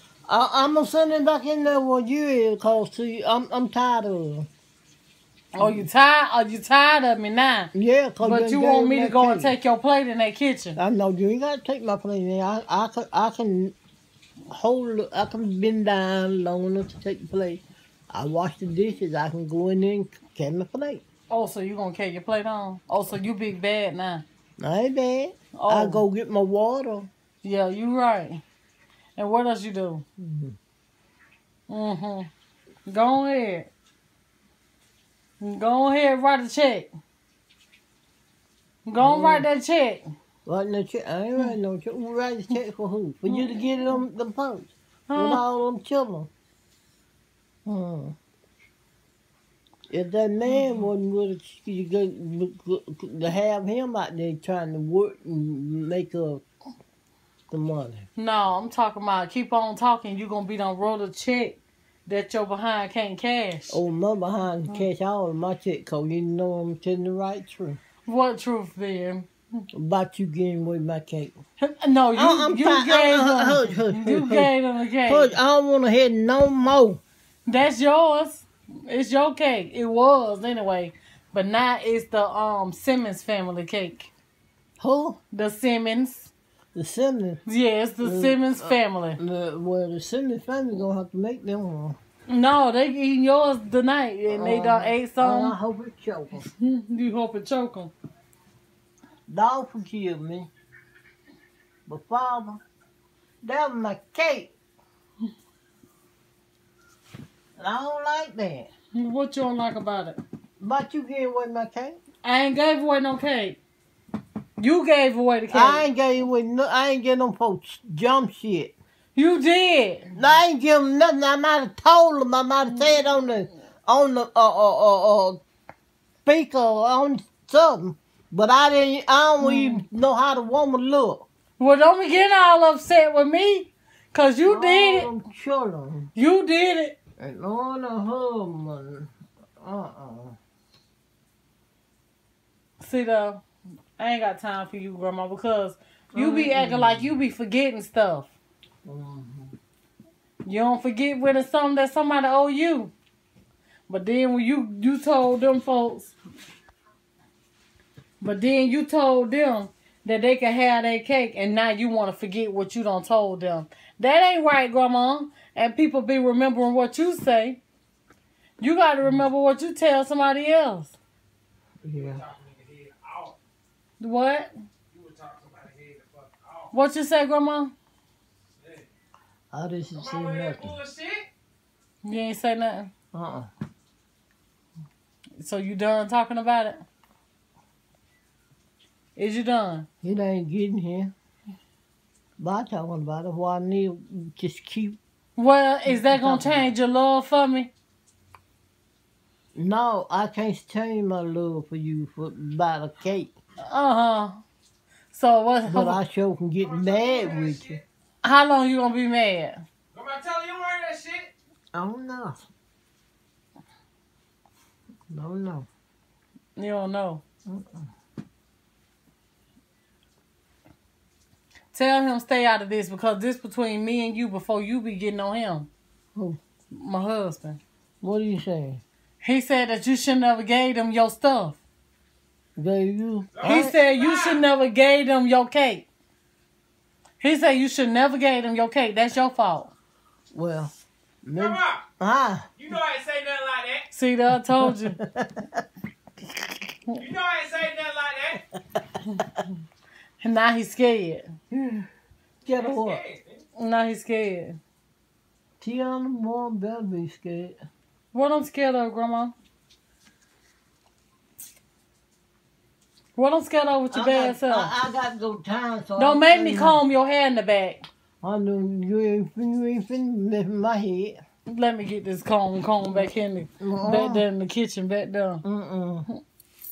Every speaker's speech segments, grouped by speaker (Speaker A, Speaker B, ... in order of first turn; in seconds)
Speaker A: 0.3-4.5, 5.5-5.9, 7.7-9.5, 10.8-13.7, 14.5-21.0, 24.6-27.1, 30.2-30.6, 39.0-39.5, 40.5-46.3, 47.6-48.1, 49.9-56.4, 57.5-58.0, 63.7-67.8, 69.7-71.4, 72.2-74.5, 75.0-77.0, 84.8-85.2, 86.7-87.4, 88.0-92.0, 94.3-96.5, 99.3-100.5, 101.9-102.6, 103.4-104.5, 107.5-108.7, 110.6-112.0, 115.5-118.7, 120.2-125.4, 126.2-131.2, 134.4-136.1, 137.2-140.4, 146.1-147.1, 148.8-149.6, 171.8-172.2, 179.5-180.8, 183.1-183.5, 190.0-191.1, 192.4-195.0, 195.8-196.7, 199.6-203.3, 205.7-207.8, 211.7-212.4, 215.1-215.7, 217.4-217.8, 228.0-228.8, 232.6-233.7, 240.3-240.7, 241.2-242.5, 244.6-245.6, 251.5-251.9, 252.4-253.0, 255.6-257.6, 263.9-266.8, 268.2-271.2, 273.6-274.2, 275.4-276.1
Speaker B: 5.5-10.8, 21.3-24.2, 25.5-26.0, 27.4-28.4, 29.2-30.0, 31.7-32.3, 32.9-33.7, 35.4-36.9, 38.9-40.1, 45.1-45.4, 58.1-63.8, 68.0-69.6, 71.6-75.3, 77.5-84.1, 85.3-86.3, 87.5-89.2, 92.3-95.5, 96.5-97.9, 108.9-110.2, 112.2-113.6, 114.6-115.8, 119.1-120.1, 129.4-129.8, 131.6-135.1, 136.1-137.0, 142.8-143.4, 144.0-148.3, 150.4-152.9, 153.9-156.1, 158.2-167.6, 168.6-170.9, 174.0-174.5, 176.7-177.7, 182.0-182.9, 185.4-186.8, 189.2-189.9, 195.4-197.7, 203.6-204.4, 205.1-206.0, 208.2-209.6, 216.6-217.2, 221.7-225.7, 226.7-227.6, 229.2-231.6, 233.4-235.9, 237.2-239.7, 243.9-245.0, 250.2-251.3, 253.6-254.6, 258.1-259.3, 263.1-264.7, 266.0-267.8, 271.4-275.4
Speaker C: 171.9-173.4, 174.9-176.7, 178.6-178.9, 179.9-181.3, 206.6-207.8, 209.9-211.3, 233.3-234.4, 241.3-241.9, 242.6-243.9, 246.9-248.4, 252.4-253.4